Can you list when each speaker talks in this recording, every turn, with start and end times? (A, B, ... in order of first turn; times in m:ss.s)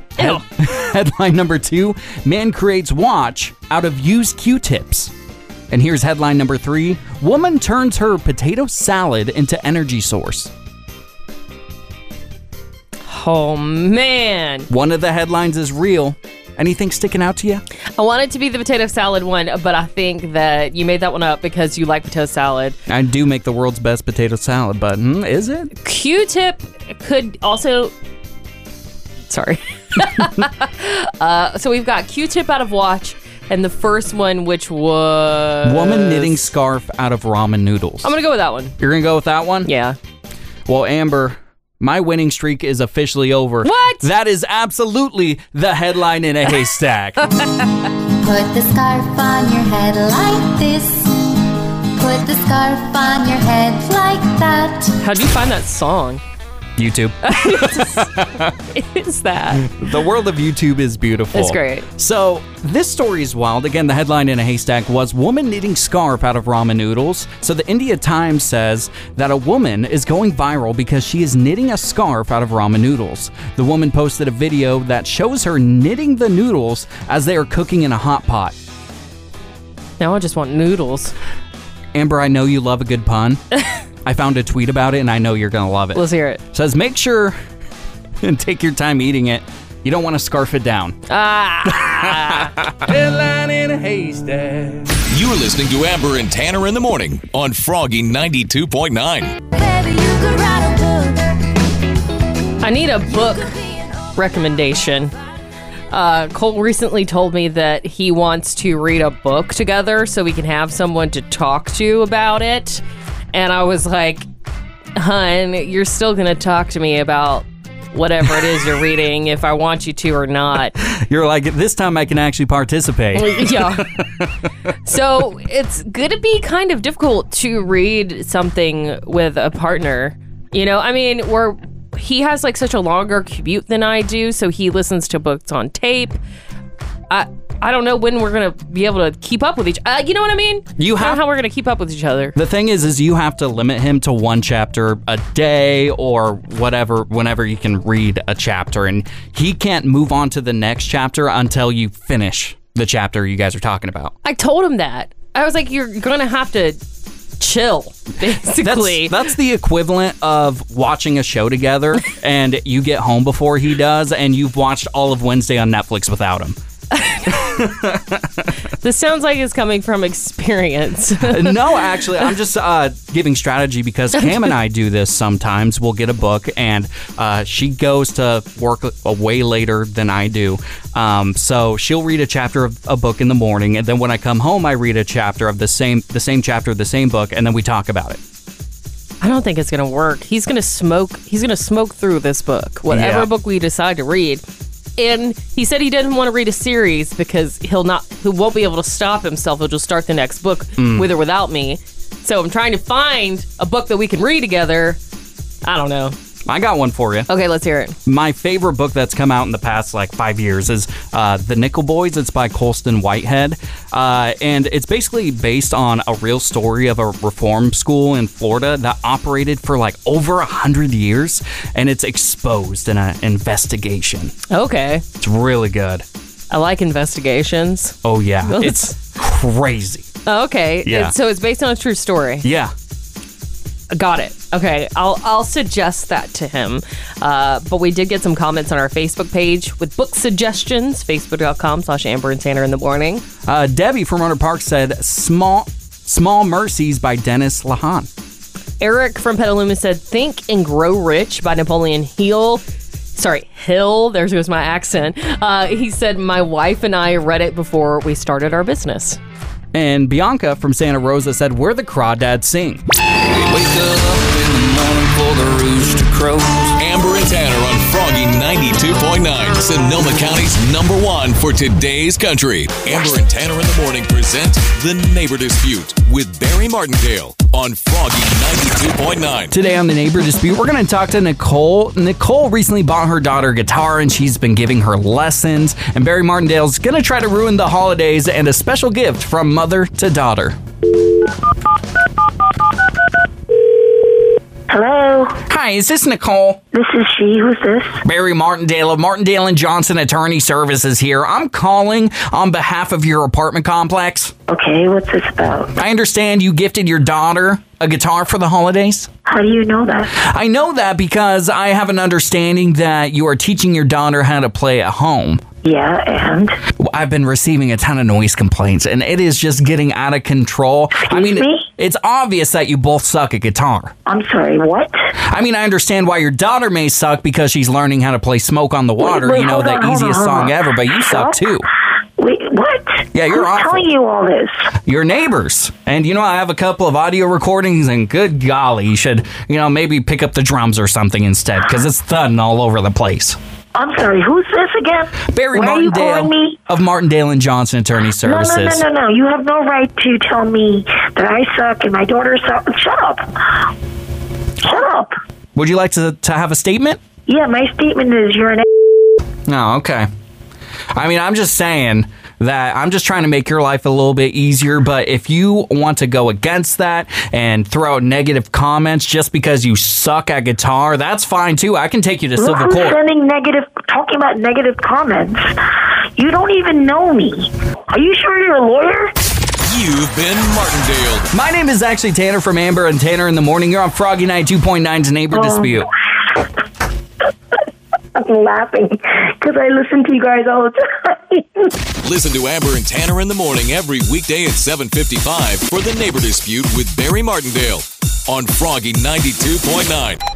0:00.2-0:00.4 A
0:00.2-0:05.1 B
0:05.7-0:10.5 B
0:13.0-0:14.7 A
0:14.7-0:17.6 B
0:18.0-0:22.8 A
0:22.9-0:25.7 B
0:25.8-0:27.9 A
0:29.3-0:36.4 A
0:35.6-0:38.1 B
0:38.0-0:38.8 A
0:38.8-0:39.7 B
0:39.6-0:40.0 A
0:40.7-0:47.3 B
0:43.6-0:44.1 A
0:48.2-0:51.2 C
0:52.0-0:55.0 C
0:55.0-0:56.2 A
0:56.8-0:58.5 B
0:57.2-0:58.1 A
0:58.7-0:59.7 A
0:59.6-1:18.5 B
1:01.3-1:01.9 A
1:20.0-1:21.1 A
1:21.9-1:23.4 B
1:24.0-1:27.4 B
1:25.9-1:26.4 A
1:28.2-1:31.0 B
1:31.1-1:32.6 A
1:31.6-1:32.9 B
1:32.8-1:34.9 D
1:35.1-1:39.4 E
1:39.5-1:41.4 C
1:42.6-1:43.5 A
1:43.1-1:44.0 C
1:44.2-1:45.1 A
1:45.9-1:54.2 A
1:55.0-2:00.7 A
2:00.8-2:04.3 B
2:03.1-2:03.8 A
2:04.8-2:16.2 A
2:17.1-2:22.3 A
2:20.8-2:21.2 B
2:22.3-2:34.1 B
2:34.2-2:36.8 A
2:37.4-2:39.2 A
2:38.6-2:46.6 B
2:46.9-2:47.5 A
2:47.3-2:48.5 B
2:48.8-2:52.2 A
2:51.2-3:08.2 B
2:54.2-2:54.5 A
3:09.2-3:14.4 A
3:12.9-3:13.3 B
3:15.0-3:25.0 A
3:20.8-3:21.1 B
3:25.6-3:26.1 A
3:26.5-3:27.3 B
3:27.3-3:28.0 A
3:28.0-3:44.3 B
3:44.5-3:45.0 A
3:45.2-3:46.0 B
3:46.5-3:49.0 A
3:48.0-3:50.1 B
3:50.2-3:52.4 A
3:50.8-3:51.1 B
3:52.4-3:52.7 B
3:53.9-4:03.2 A
4:03.4-4:08.1 B
4:08.8-4:12.6 A
4:13.2-4:19.2 A
4:19.7-4:22.8 B
4:23.5-4:26.7 B
4:24.2-4:25.1 D
4:26.8-4:39.5 E
4:39.5-4:50.6 B
4:54.7-4:55.4 F
4:55.5-4:56.6 B
4:56.7-4:58.0 F
4:58.0-5:04.3 B
5:04.5-5:05.7 F
5:05.8-5:09.1 B
5:09.2-5:10.1 F
5:10.1-5:15.4 B
5:15.6-5:16.6 F
5:16.8-5:23.9 B
5:21.0-5:21.7 F
5:24.0-5:25.1 F
5:25.2-5:31.7 B
5:29.0-5:31.6 F
5:32.2-5:34.7 F
5:33.1-5:33.9 B
5:34.8-5:43.4 B
5:43.8-5:46.6 F
5:45.3-5:48.8 B
5:48.2-5:53.6 F
5:54.6-5:55.1 F
5:55.5-5:57.0 B
5:57.3-5:58.6 F
5:59.5-6:00.1 B
6:00.9-6:13.0 B
6:12.4-6:15.5 F
6:16.2-6:19.1 F
6:19.6-6:21.3 E
6:21.3-6:25.9 B
6:25.3-6:25.9 F
6:28.2-6:31.7 F
6:32.0-6:40.2 E